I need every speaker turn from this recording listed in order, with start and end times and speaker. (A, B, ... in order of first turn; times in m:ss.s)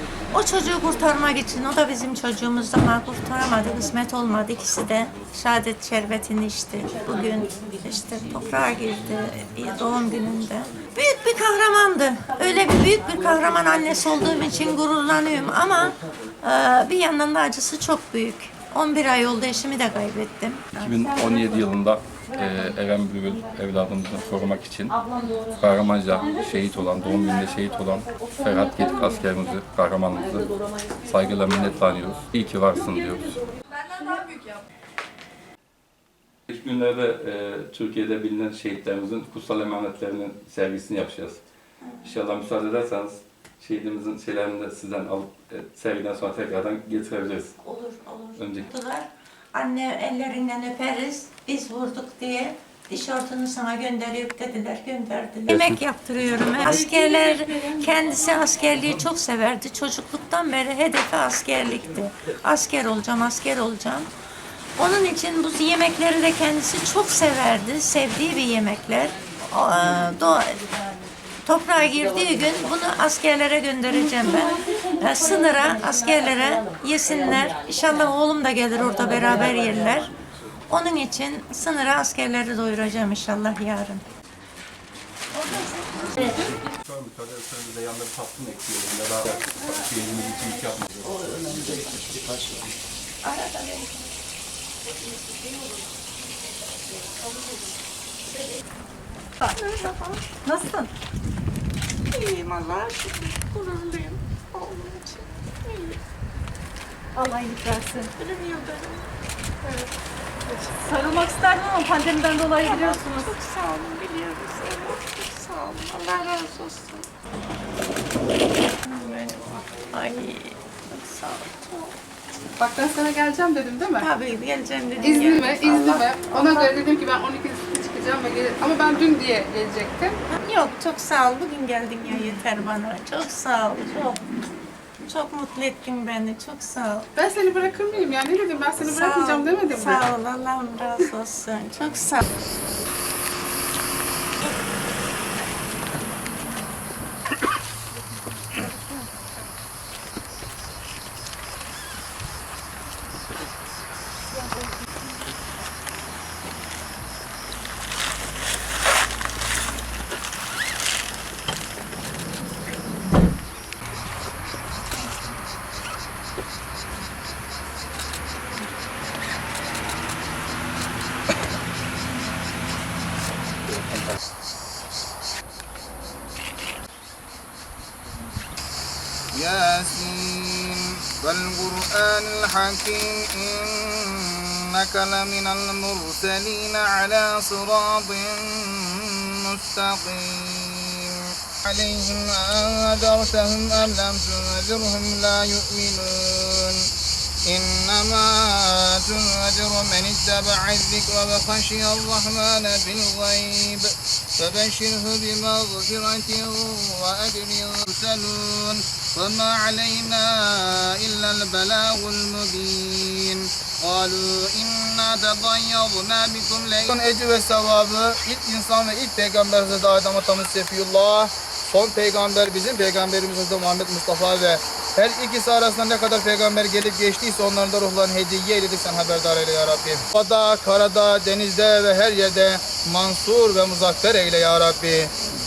0:00.3-0:21.5 A
0:20.8-0:25.0 B
0:25.6-0:33.4 B
0:36.5-0:41.4 B
0:41.8-0:42.1 A
0:42.0-0:47.5 B
0:47.6-1:04.1 A
0:48.4-0:48.7 B
0:55.5-0:55.8 B
0:56.7-0:57.8 C
1:04.8-1:10.7 A
1:11.4-1:20.1 A
1:20.7-1:24.0 A
1:25.4-1:26.3 A
1:26.1-1:32.0 B
1:33.2-1:34.1 A
1:39.5-1:40.4 A
1:40.4-1:40.9 C
1:42.1-1:46.0 A
1:47.2-1:48.1 C
1:48.1-1:49.1 A
1:50.8-1:53.3 C
1:52.6-1:57.1 A
1:58.8-2:02.0 A
2:02.6-2:04.1 D
2:04.0-2:06.7 A
2:05.0-2:10.2 D
2:10.4-2:14.2 A
2:15.0-2:17.1 A
2:17.2-2:20.0 D
2:18.8-2:22.2 A
2:59.3-3:16.9 E
3:17.4-3:55.1 E